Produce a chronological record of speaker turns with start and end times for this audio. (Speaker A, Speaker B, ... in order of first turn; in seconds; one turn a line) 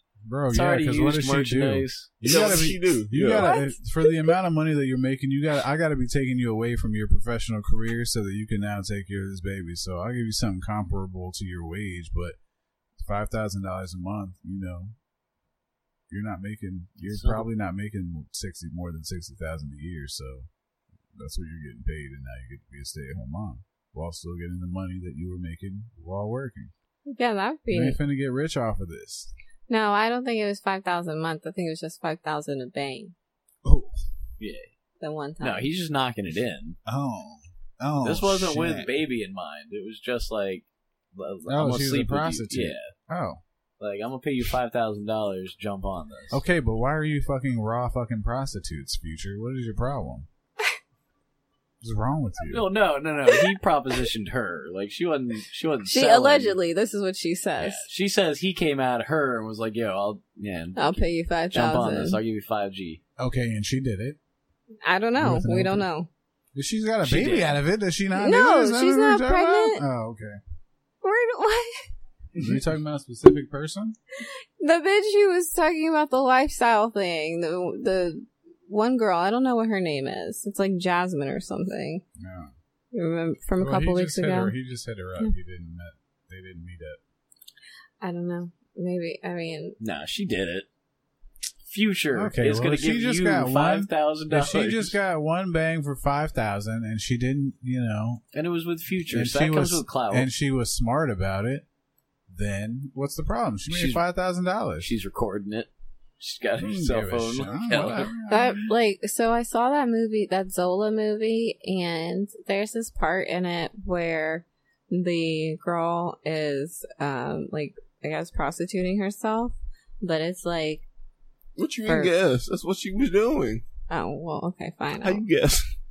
Speaker A: 0.2-12.4
Speaker B: 0.5-2.2
Speaker C: 2.2-3.5
Speaker D: 3.4-3.7
Speaker A: 13.0-14.9
Speaker A: 16.1-20.5
Speaker B: 17.0-17.5
Speaker A: 21.1-26.7
Speaker D: 27.1-28.0
Speaker A: 27.7-29.3
Speaker D: 29.7-33.1
Speaker A: 33.6-34.0
Speaker B: 34.4-34.7
Speaker D: 35.0-35.7
Speaker B: 35.4-36.8
Speaker A: 36.9-38.9
Speaker B: 38.0-42.9
Speaker A: 41.5-43.4
Speaker B: 43.8-46.4
Speaker A: 46.3-50.3
Speaker A: 51.8-52.7
Speaker B: 52.5-56.6
Speaker D: 55.8-57.9
Speaker B: 57.6-63.0
Speaker D: 60.8-62.2
Speaker A: 63.2-64.2
Speaker D: 64.8-66.1
Speaker A: 65.2-65.9
Speaker A: 66.5-70.4
Speaker B: 67.0-67.6
Speaker D: 68.2-69.8
Speaker D: 71.0-71.9
Speaker A: 72.4-74.0
Speaker D: 74.6-82.0
Speaker A: 82.2-82.5
Speaker D: 82.9-84.5
Speaker A: 83.6-87.0
Speaker D: 88.0-89.8
Speaker B: 89.8-90.7
Speaker B: 91.7-94.9
Speaker A: 92.2-98.2
Speaker B: 98.3-100.3
Speaker A: 99.1-101.7
Speaker A: 102.3-104.9
Speaker B: 103.7-104.0
Speaker B: 104.8-105.7
Speaker B: 106.2-108.1
Speaker A: 106.6-108.7
Speaker D: 108.3-120.8
Speaker C: 121.6-123.6
Speaker D: 121.8-122.2
Speaker D: 123.9-125.2
Speaker C: 125.0-125.7